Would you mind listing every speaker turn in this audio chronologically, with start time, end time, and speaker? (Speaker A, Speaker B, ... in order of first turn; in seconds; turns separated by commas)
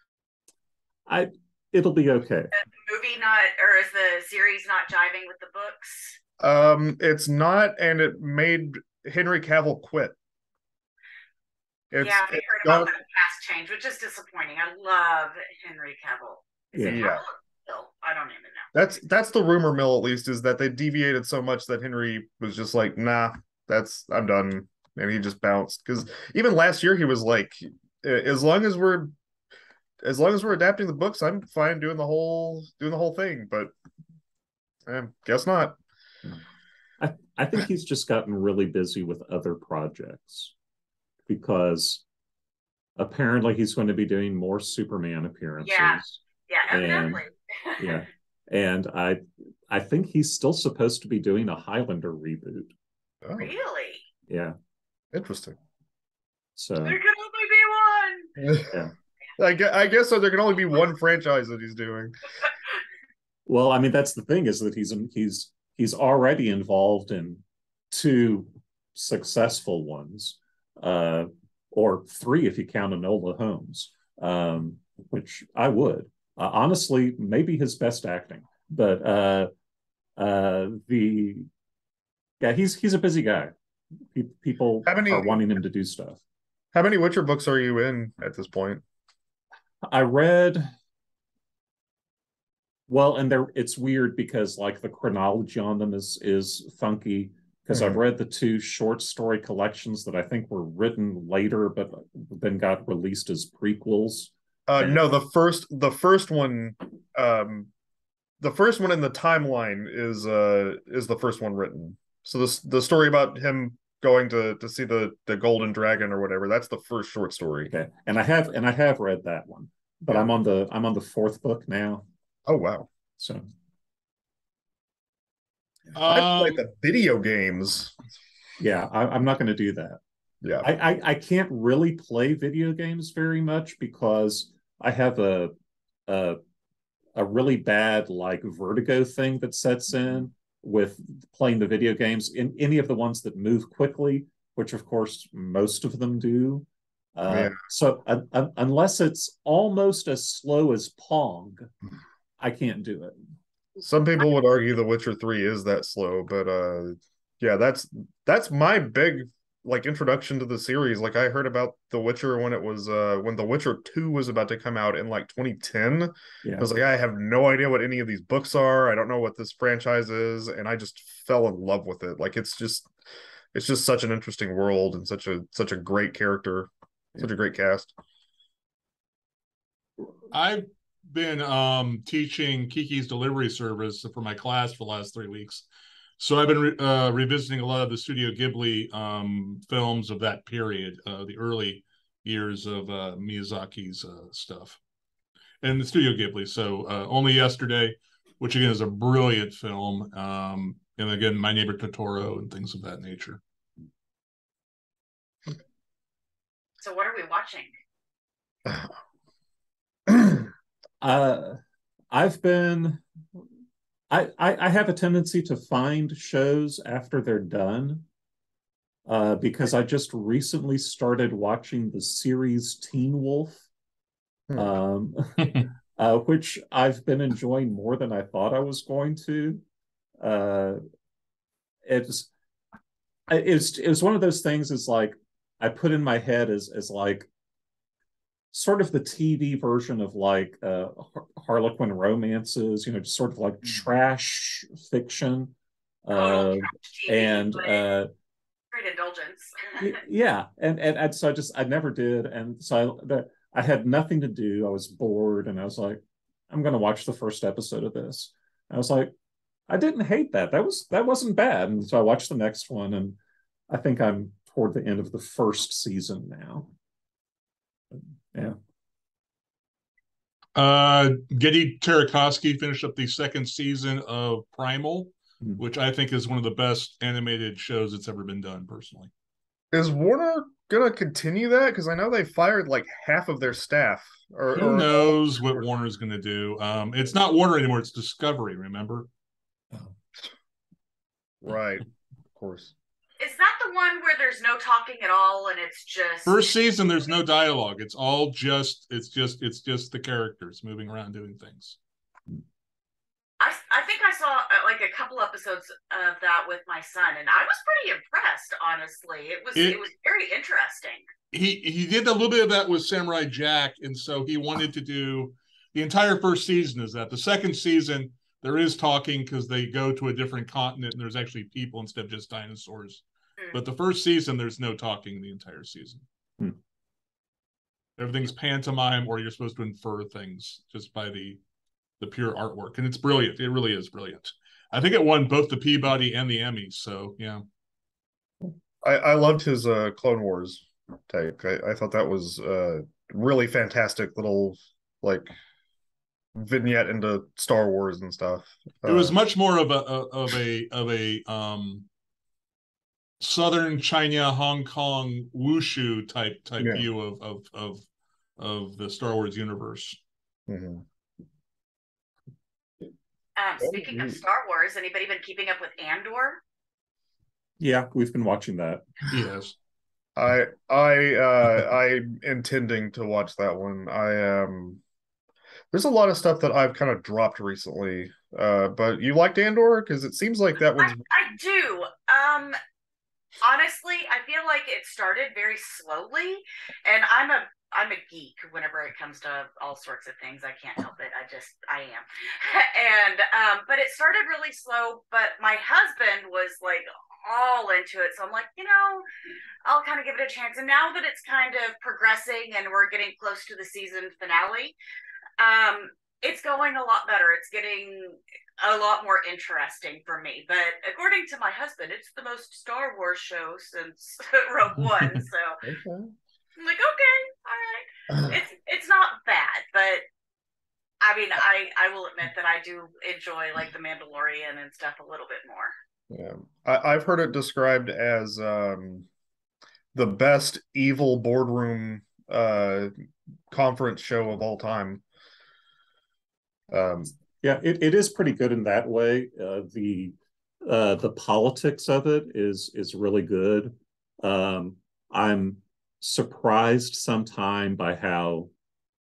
Speaker A: 1.1-2.5, Speaker B: 2.5-6.2, Speaker C: 6.4-10.2, Speaker C: 11.9-12.9, Speaker B: 12.0-18.7, Speaker A: 16.7-17.0, Speaker C: 16.8-17.2, Speaker C: 18.7-29.1, Speaker C: 30.0-33.7, Speaker C: 34.9-35.8, Speaker A: 37.0-40.5, Speaker A: 41.3-42.0, Speaker A: 43.0-47.2, Speaker B: 45.6-48.0, Speaker A: 47.8-52.7, Speaker C: 53.2-53.5, Speaker B: 53.4-54.0, Speaker A: 54.3-54.5, Speaker C: 55.1-55.6, Speaker A: 56.6-57.0, Speaker B: 56.8-58.4, Speaker C: 58.4-58.8, Speaker C: 59.4-62.3, Speaker A: 63.5-79.5, Speaker A: 80.2-81.5, Speaker A: 82.4-83.5, Speaker A: 84.1-86.2, Speaker C: 84.9-85.4, Speaker C: 86.7-88.8, Speaker A: 89.9-90.7, Speaker A: 92.9-105.0, Speaker C: 97.7-98.0, Speaker C: 104.7-107.7, Speaker C: 108.4-117.7, Speaker A: 117.7-122.1, Speaker C: 122.5-122.9, Speaker A: 123.2-123.5, Speaker D: 126.0-126.6, Speaker C: 126.1-128.0, Speaker A: 128.6-130.0, Speaker C: 130.4-130.7, Speaker A: 130.6-135.5, Speaker A: 136.1-136.4, Speaker A: 137.2-151.7, Speaker C: 147.3-147.6, Speaker A: 152.4-153.2, Speaker C: 153.8-172.9, Speaker A: 166.4-166.7, Speaker C: 173.5-177.9, Speaker D: 180.3-185.7, Speaker D: 186.2-194.8, Speaker D: 195.6-203.4, Speaker B: 206.8-207.7, Speaker C: 210.1-210.4, Speaker A: 211.0-211.6, Speaker A: 212.1-213.0, Speaker A: 214.1-218.1, Speaker A: 219.1-223.6, Speaker A: 224.6-229.6, Speaker A: 230.2-230.8, Speaker A: 231.8-232.3, Speaker A: 233.3-237.3, Speaker A: 238.5-245.5, Speaker A: 246.1-248.1, Speaker B: 246.1-247.8, Speaker B: 248.7-250.0, Speaker A: 249.8-256.0, Speaker A: 256.5-259.1, Speaker A: 259.7-263.2, Speaker A: 263.7-266.7, Speaker D: 270.6-279.1, Speaker C: 279.7-285.6, Speaker D: 284.6-289.1, Speaker C: 291.4-292.7, Speaker B: 293.2-296.5, Speaker D: 296.3-301.8, Speaker B: 303.4-311.1, Speaker D: 309.6-309.8, Speaker D: 311.3-326.0, Speaker D: 328.0-331.4, Speaker D: 332.0-337.4, Speaker C: 338.4-345.3, Speaker C: 346.4-349.1, Speaker D: 348.9-351.9, Speaker D: 353.2-357.9, Speaker C: 356.6-356.9, Speaker D: 358.4-360.0, Speaker C: 360.5-360.8, Speaker B: 363.4-366.4, Speaker C: 363.6-364.2, Speaker A: 367.6-368.9, Speaker D: 369.1-369.6, Speaker C: 370.2-374.8, Speaker C: 375.7-381.1, Speaker B: 380.8-382.6, Speaker B: 383.4-399.1, Speaker B: 399.7-404.8, Speaker B: 405.4-415.6, Speaker C: 415.6-416.1, Speaker B: 416.6-420.0, Speaker B: 421.0-425.7, Speaker C: 426.1-429.1, Speaker C: 429.9-432.9, Speaker C: 433.5-435.0, Speaker C: 436.7-437.1, Speaker A: 437.4-448.5